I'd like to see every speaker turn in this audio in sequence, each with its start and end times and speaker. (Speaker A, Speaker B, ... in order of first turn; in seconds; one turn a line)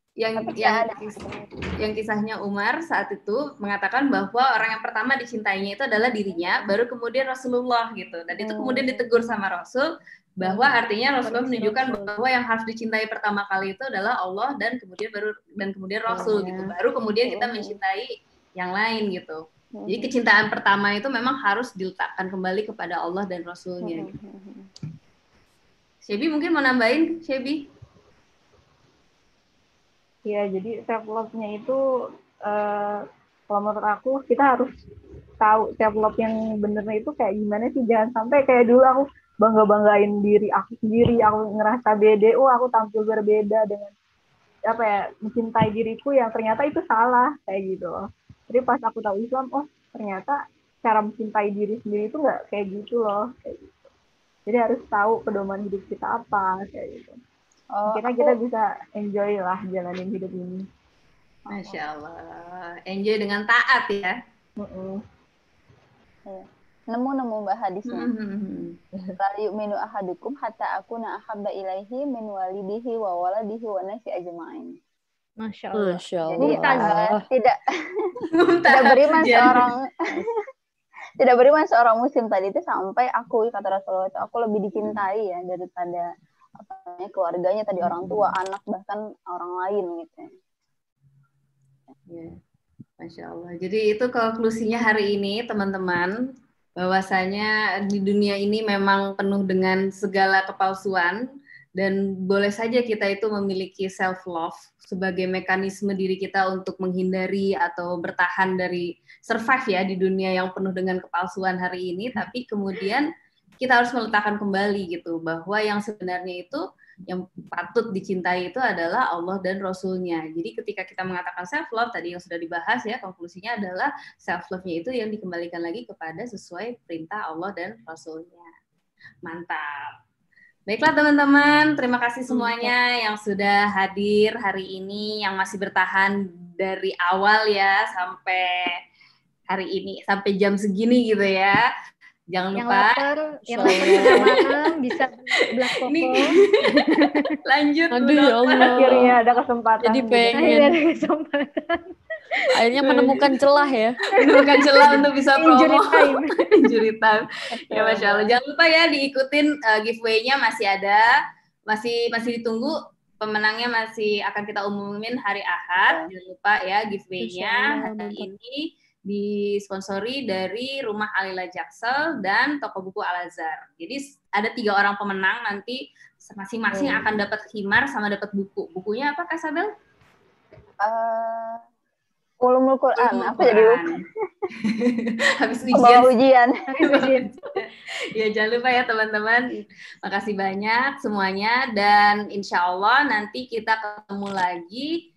Speaker A: 0.2-1.2
Speaker B: 0.4-1.5
Speaker A: 1.8-9.9
Speaker B: 8.4-9.1
Speaker A: 10.4-24.1
Speaker C: 11.2-12.2
Speaker B: 16.1-17.8
Speaker B: 19.8-20.1
Speaker B: 23.8-24.7
Speaker A: 26.1-27.7
Speaker D: 30.3-31.8
Speaker D: 32.5-34.7
Speaker D: 35.4-43.9
Speaker D: 44.7-53.8
Speaker D: 54.5-57.2
Speaker B: 57.7-58.4
Speaker D: 57.9-60.7
Speaker B: 61.5-61.8
Speaker A: 61.5-64.2
Speaker D: 64.6-65.0
Speaker B: 66.3-68.1
Speaker A: 67.9-69.2
Speaker B: 69.2-74.8
Speaker C: 75.4-77.0
Speaker E: 75.8-77.2
Speaker B: 76.3-78.2
Speaker A: 78.3-79.7
Speaker B: 78.7-80.3
Speaker B: 81.2-86.1
Speaker B: 86.6-90.3
Speaker A: 92.1-92.4
Speaker A: 93.0-96.1
Speaker A: 96.8-101.2
Speaker A: 101.8-113.1
Speaker A: 113.6-128.5
Speaker A: 129.3-129.7
Speaker A: 130.7-138.5
Speaker A: 139.5-141.6
Speaker A: 142.3-143.1
Speaker C: 142.6-147.3
Speaker E: 143.5-144.3
Speaker A: 143.7-144.5
Speaker A: 145.9-146.4
Speaker A: 147.4-149.0
Speaker E: 147.9-149.2
Speaker D: 148.7-150.7
Speaker E: 149.8-150.7
Speaker C: 150.4-151.9
Speaker E: 152.6-154.0
Speaker A: 152.8-153.1
Speaker C: 154.1-156.4
Speaker A: 154.2-161.1
Speaker B: 157.5-158.3
Speaker A: 161.7-179.7
Speaker E: 167.2-168.3
Speaker E: 176.7-177.0
Speaker B: 180.8-181.6
Speaker B: 182.4-184.0
Speaker A: 183.0-184.0
Speaker A: 184.6-186.1
Speaker B: 185.7-186.7
Speaker C: 186.7-187.5
Speaker A: 186.8-194.9